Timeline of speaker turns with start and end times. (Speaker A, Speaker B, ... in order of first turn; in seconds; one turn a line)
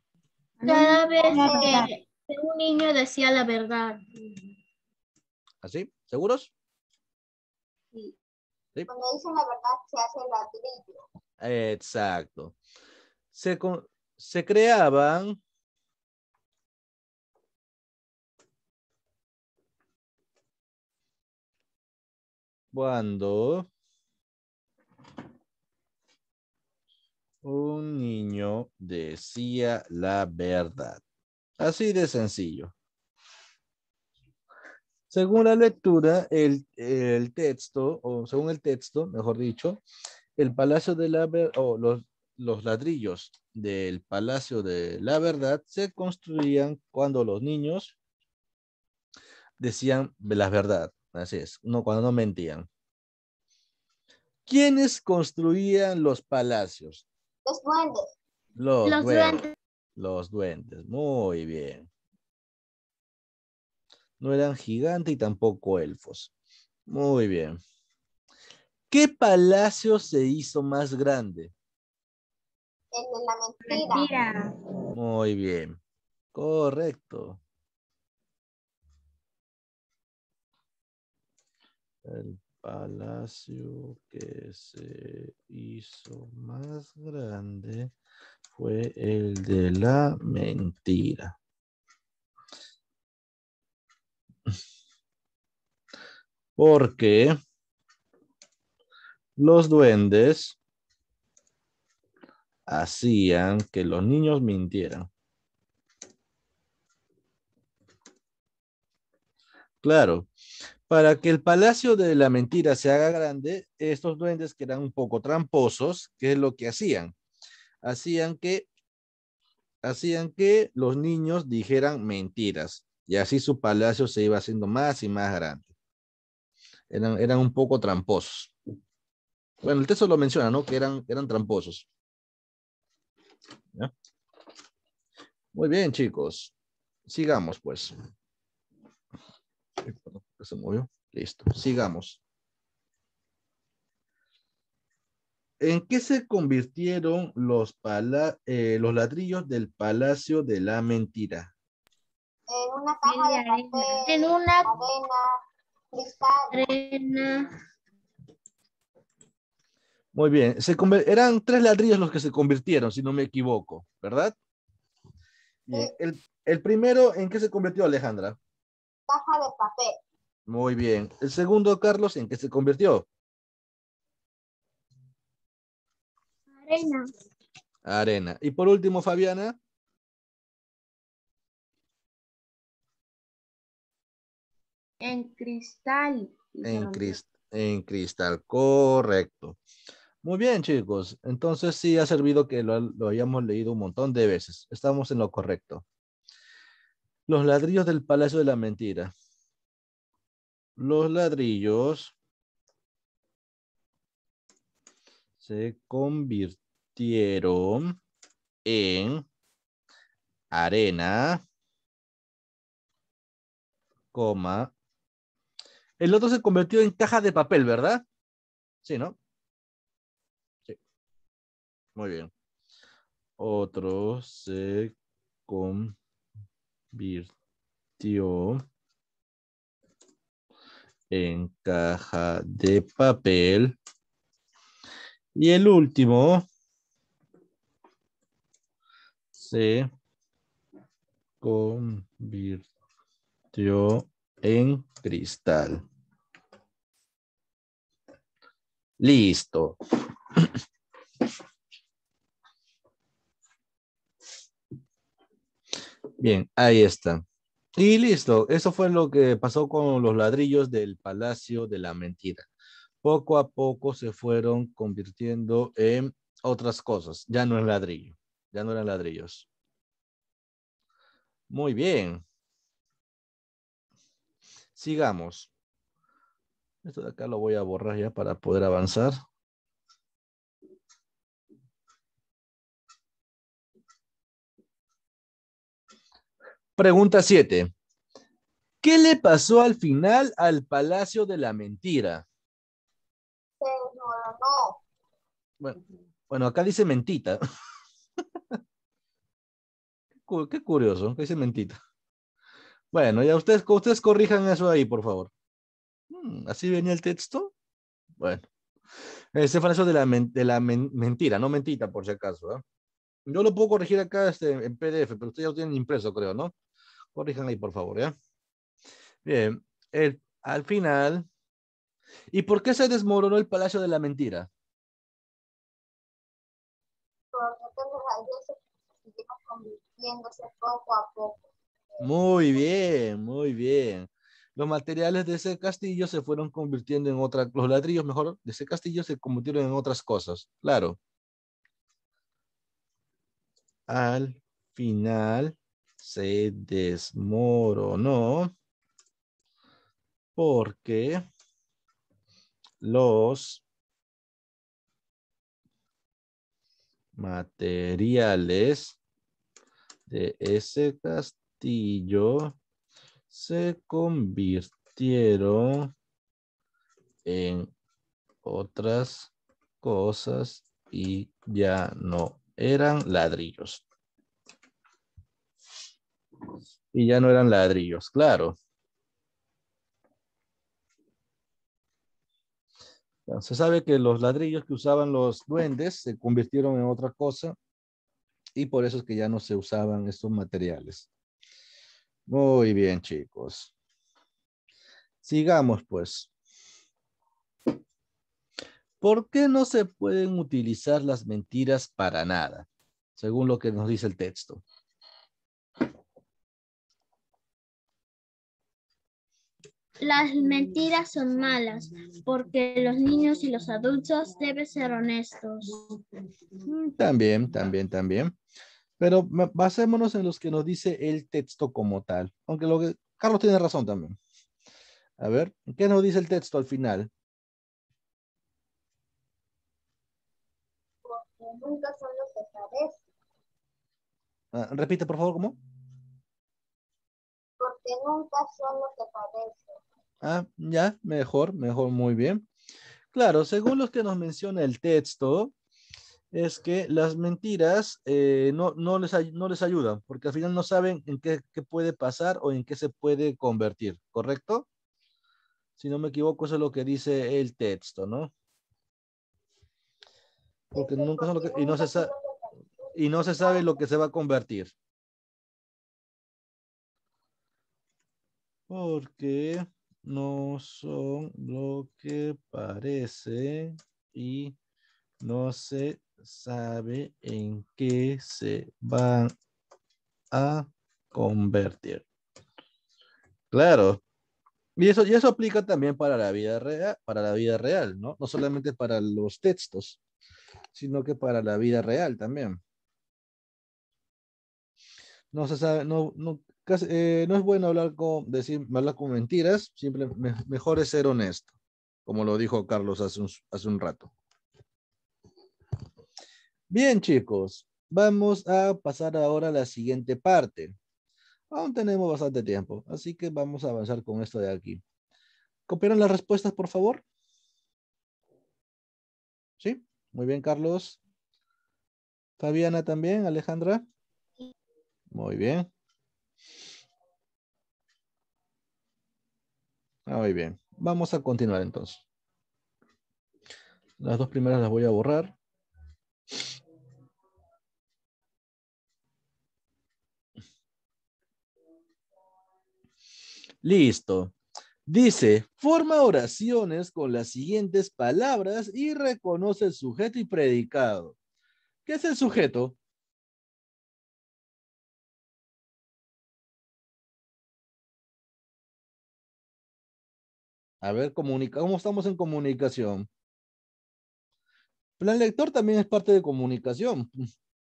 Speaker A: 0.6-1.9
Speaker B: 0.6-4.0
Speaker C: 1.2-1.9
Speaker D: 5.6-6.5
Speaker C: 8.9-11.0
Speaker D: 11.4-12.5
Speaker D: 13.3-15.4
Speaker D: 22.7-23.7
Speaker D: 27.4-31.0
Speaker D: 31.6-32.7
Speaker D: 35.1-39.8
Speaker D: 40.4-48.0
Speaker D: 49.6-52.7
Speaker D: 54.5-57.0
Speaker C: 57.5-58.1
Speaker D: 58.6-59.4
Speaker B: 58.8-59.5
Speaker D: 60.0-61.9
Speaker D: 64.2-66.3
Speaker D: 66.9-67.6
Speaker D: 68.9-71.5
Speaker C: 72.9-74.1
Speaker A: 73.6-74.5
Speaker D: 74.9-75.8
Speaker D: 76.3-77.4
Speaker D: 82.0-87.9
Speaker D: 88.5-91.4
Speaker D: 96.6-97.4
Speaker D: 99.4-100.6
Speaker D: 102.7-105.1
Speaker D: 109.8-110.3
Speaker D: 110.9-117.1
Speaker D: 117.8-118.7
Speaker D: 119.8-125.7
Speaker D: 126.9-128.5
Speaker D: 129.6-131.9
Speaker D: 135.5-136.5
Speaker D: 137.1-137.9
Speaker D: 139.8-142.2
Speaker D: 145.6-151.5
Speaker C: 152.5-155.3
Speaker A: 153.1-153.9
Speaker B: 154.1-154.7
Speaker C: 155.9-156.6
Speaker B: 156.5-157.5
Speaker D: 160.1-164.3
Speaker D: 165.7-168.4
Speaker C: 169.1-170.0
Speaker D: 170.5-173.1
Speaker B: 176.6-177.1
Speaker D: 177.8-179.6
Speaker A: 185.0-187.2
Speaker D: 186.6-189.6
Speaker D: 190.2-195.8
Speaker D: 197.3-199.1
Speaker D: 200.8-202.1
Speaker D: 205.4-208.0
Speaker D: 208.6-209.2
Speaker D: 210.5-211.4
Speaker D: 214.1-214.7
Speaker D: 216.0-218.0
Speaker D: 218.8-219.2
Speaker D: 221.9-222.3
Speaker D: 223.4-224.9
Speaker D: 225.5-226.0
Speaker D: 226.9-227.3
Speaker D: 228.0-228.6
Speaker D: 231.1-233.8
Speaker D: 235.3-236.5
Speaker D: 239.3-239.9
Speaker D: 241.4-242.7
Speaker D: 243.5-245.8
Speaker D: 249.0-249.8
Speaker D: 256.2-257.2
Speaker D: 257.8-262.5
Speaker D: 263.0-269.5
Speaker D: 271.5-272.2
Speaker D: 274.8-275.5
Speaker D: 276.8-279.1
Speaker D: 286.8-287.7
Speaker D: 288.8-292.2
Speaker C: 293.6-294.8
Speaker D: 296.3-297.4
Speaker D: 300.3-301.8
Speaker D: 302.9-305.3
Speaker D: 306.1-307.5
Speaker D: 308.2-308.5
Speaker D: 309.3-312.6
Speaker D: 313.2-316.5
Speaker D: 317.1-318.1
Speaker D: 319.2-321.3
Speaker D: 322.3-324.5
Speaker C: 327.3-332.1
Speaker D: 332.0-341.0
Speaker D: 343.9-348.5
Speaker D: 350.4-351.2
Speaker D: 352.8-353.6
Speaker D: 357.1-359.0
Speaker D: 360.1-362.6
Speaker D: 363.3-365.9
Speaker D: 367.2-367.7
Speaker D: 368.4-373.8
Speaker D: 376.9-378.6
Speaker D: 383.3-387.6
Speaker D: 388.6-391.1
Speaker D: 392.3-393.7
Speaker D: 395.2-396.3
Speaker D: 399.0-404.6
Speaker B: 410.0-415.8
Speaker D: 416.6-418.3
Speaker D: 419.0-424.2
Speaker D: 425.2-427.1
Speaker C: 431.0-433.0
Speaker D: 434.5-435.6
Speaker C: 437.6-439.8
Speaker D: 440.2-442.4
Speaker D: 443.1-445.5
Speaker D: 446.3-454.7
Speaker D: 455.8-458.3
Speaker C: 460.7-463.6
Speaker D: 460.7-462.1
Speaker D: 462.9-464.7
Speaker D: 468.7-474.6
Speaker D: 475.2-479.3
Speaker D: 480.3-482.0
Speaker D: 483.5-484.0
Speaker D: 484.8-490.0
Speaker D: 490.7-492.6
Speaker D: 495.3-501.5
Speaker D: 502.1-504.1
Speaker D: 506.7-510.8
Speaker D: 511.5-514.8
Speaker D: 515.7-517.0
Speaker D: 519.6-521.0
Speaker D: 522.4-523.8
Speaker D: 525.1-525.7
Speaker D: 530.0-532.0
Speaker D: 534.0-535.4
Speaker D: 543.6-544.3
Speaker D: 544.9-551.1
Speaker D: 551.9-552.8
Speaker D: 560.8-563.1
Speaker D: 565.0-567.3